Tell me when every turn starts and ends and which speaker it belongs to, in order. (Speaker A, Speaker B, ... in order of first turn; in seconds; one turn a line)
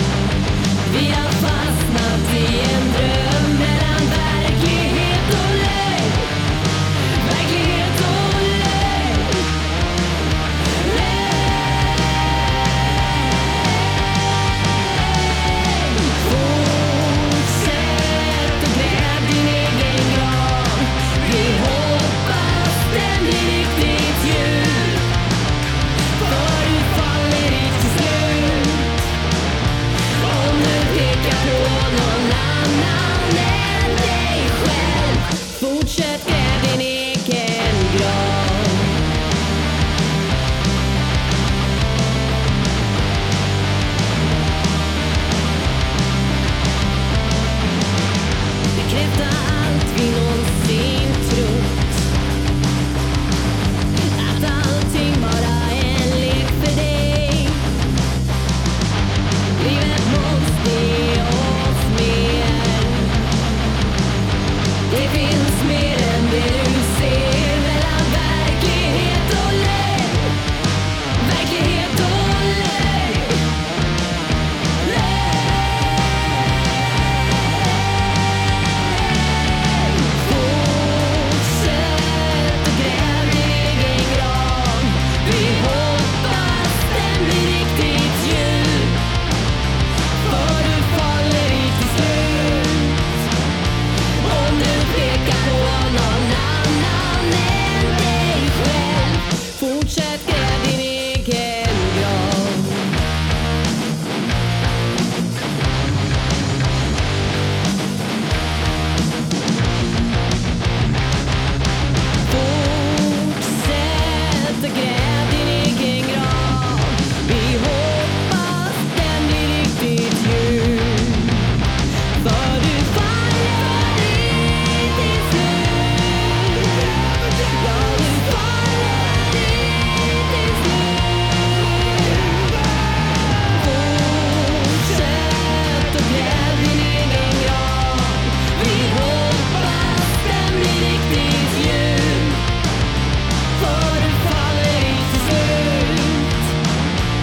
Speaker A: 0.8-6.3
Speaker A: 7.1-9.5
Speaker A: 10.7-12.4
Speaker A: 15.1-25.1
Speaker A: 26.2-29.0
Speaker A: 30.2-39.0
Speaker A: 48.8-52.0
Speaker A: 54.1-57.7
Speaker A: 59.5-63.2
Speaker A: 64.9-70.3
Speaker A: 71.2-73.4
Speaker A: 74.8-75.9
Speaker A: 78.9-89.0
Speaker A: 90.2-93.0
Speaker A: 94.2-103.0
Speaker A: 112.3-121.5
Speaker A: 122.2-132.6
Speaker A: 133.3-142.4
Speaker A: 143.6-146.5